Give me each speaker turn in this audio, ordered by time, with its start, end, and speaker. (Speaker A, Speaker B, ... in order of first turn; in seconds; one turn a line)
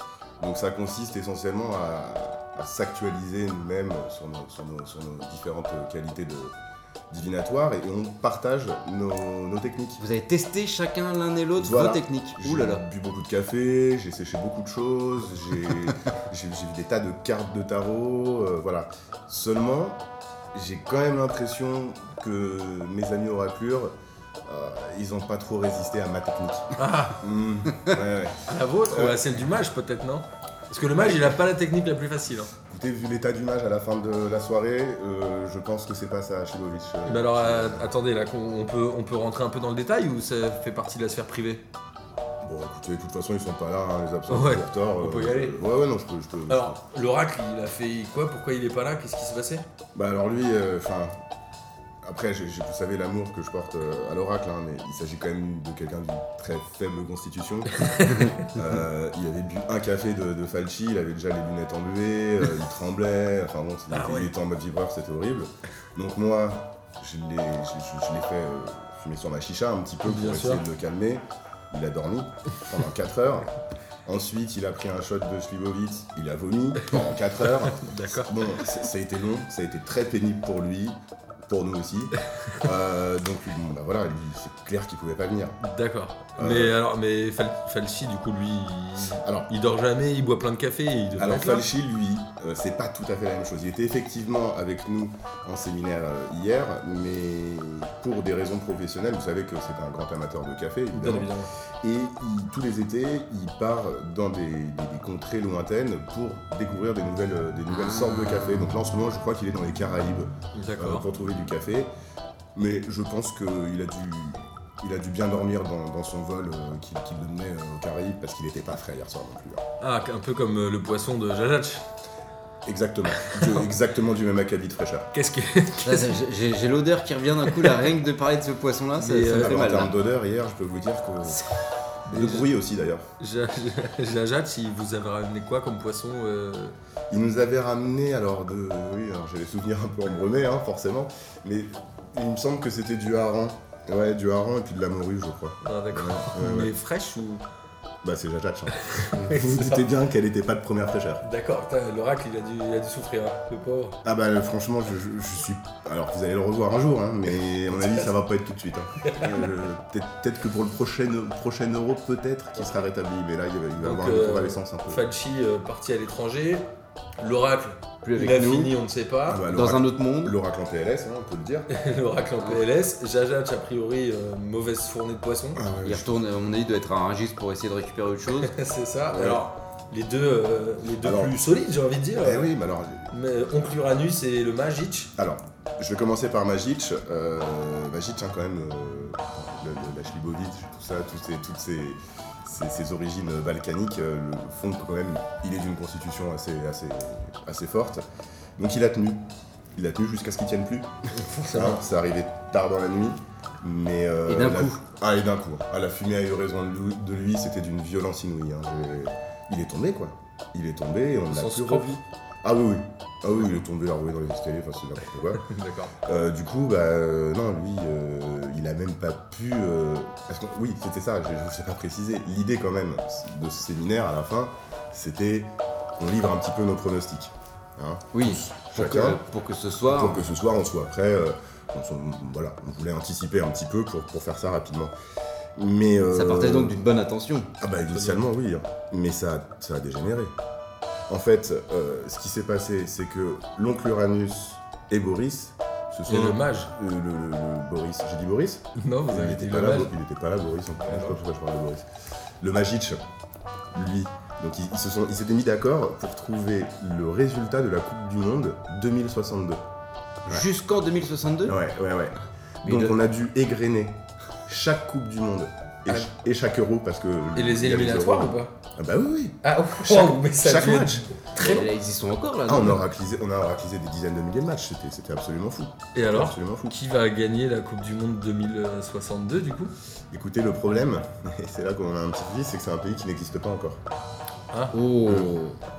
Speaker A: 0.4-6.5
Speaker A: 7.1-10.0
Speaker B: 10.0-12.8
Speaker A: 11.6-23.9
Speaker A: 24.4-29.2
Speaker C: 26.8-27.2
Speaker C: 28.5-32.5
Speaker A: 32.5-37.9
Speaker C: 37.1-41.7
Speaker A: 42.4-46.8
Speaker C: 44.3-45.6
Speaker C: 46.5-49.6
Speaker A: 50.0-51.2
Speaker A: 52.0-73.5
Speaker C: 57.8-58.3
Speaker C: 63.9-64.3
Speaker C: 70.0-70.6
Speaker A: 74.1-85.6
Speaker C: 77.4-78.6
Speaker C: 85.6-91.7
Speaker A: 86.4-86.7
Speaker A: 89.2-89.5
Speaker A: 91.2-111.9
Speaker C: 100.9-101.5
Speaker B: 107.7-108.7
Speaker C: 110.5-111.1
Speaker A: 112.5-119.6
Speaker C: 119.8-121.8
Speaker A: 122.7-125.1
Speaker C: 123.2-123.6
Speaker C: 125.1-126.2
Speaker B: 125.8-129.9
Speaker C: 129.0-129.6
Speaker A: 129.4-131.4
Speaker A: 132.1-133.1
Speaker C: 132.1-132.4
Speaker B: 132.2-132.4
Speaker C: 133.2-136.8
Speaker A: 137.1-146.7
Speaker C: 145.6-147.4
Speaker A: 148.0-151.2
Speaker C: 148.8-149.9
Speaker C: 151.2-154.0
Speaker A: 154.0-165.0
Speaker C: 157.7-158.1
Speaker C: 159.0-159.5
Speaker C: 163.8-166.7
Speaker C: 167.2-169.4
Speaker B: 168.0-168.8
Speaker A: 169.3-171.7
Speaker B: 169.5-170.4
Speaker C: 171.7-175.6
Speaker A: 175.6-176.2
Speaker B: 175.8-178.5
Speaker C: 178.4-182.5
Speaker A: 181.0-181.4
Speaker A: 182.2-183.1
Speaker C: 183.1-185.1
Speaker A: 185.2-198.0
Speaker A: 198.6-200.9
Speaker C: 201.1-201.8
Speaker A: 201.5-215.5
Speaker B: 204.3-204.8
Speaker C: 211.3-212.0
Speaker C: 215.4-215.9
Speaker A: 216.0-229.2
Speaker B: 228.1-230.3
Speaker A: 229.9-234.9
Speaker A: 235.6-236.8
Speaker B: 236.1-237.5
Speaker A: 237.6-240.3
Speaker C: 237.9-238.2
Speaker A: 241.1-251.9
Speaker C: 246.1-246.7
Speaker C: 248.8-249.9
Speaker C: 250.8-251.2
Speaker A: 252.4-253.0
Speaker A: 253.7-259.6
Speaker B: 260.3-261.6
Speaker A: 261.4-271.1
Speaker B: 262.6-263.0
Speaker C: 267.4-268.5
Speaker C: 269.4-271.7
Speaker B: 271.4-272.8
Speaker A: 272.5-276.8
Speaker C: 275.9-279.7
Speaker A: 280.1-283.8
Speaker B: 284.7-285.6
Speaker A: 285.1-285.4